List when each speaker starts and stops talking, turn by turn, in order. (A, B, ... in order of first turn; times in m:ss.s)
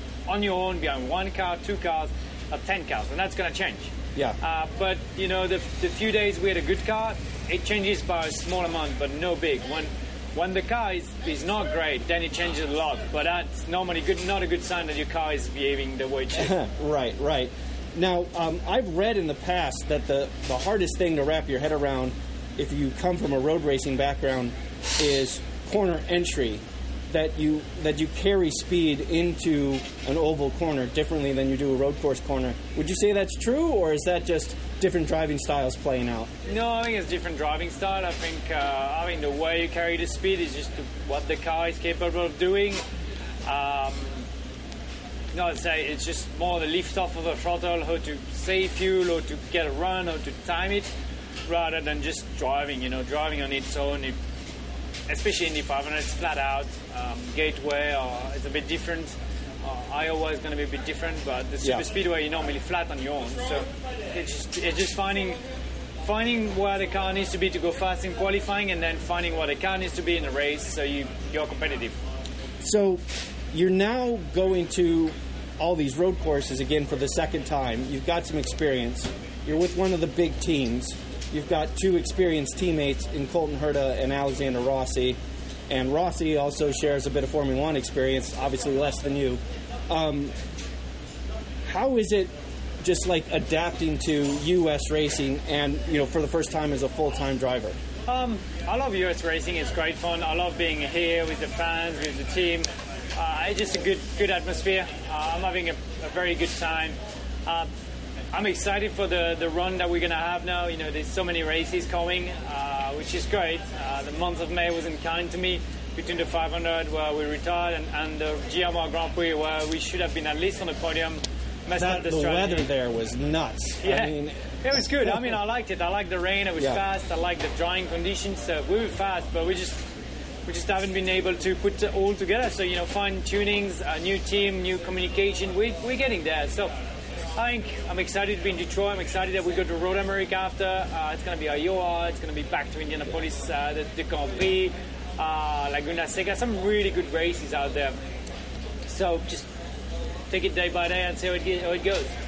0:00.3-0:16.5 A
0:16.3-0:36.3 B
0:36.4-0:42.8 A
0:43.4-0:44.2 A
0:45.3-0:50.9 A
0:51.5-0:54.2 A
0:55.1-1:05.4 A
1:06.0-1:11.9 A
1:12.6-1:13.0 B
1:13.5-1:25.2 B
1:25.7-1:30.3 B
1:31.7-1:37.8 B
1:38.1-1:47.7 A
1:48.3-2:02.7 A
2:01.8-2:05.2 B
2:03.8-2:09.8 A
2:10.4-2:16.7 A
2:17.3-2:27.9 A
2:28.8-2:29.5 A
2:30.3-2:32.1 A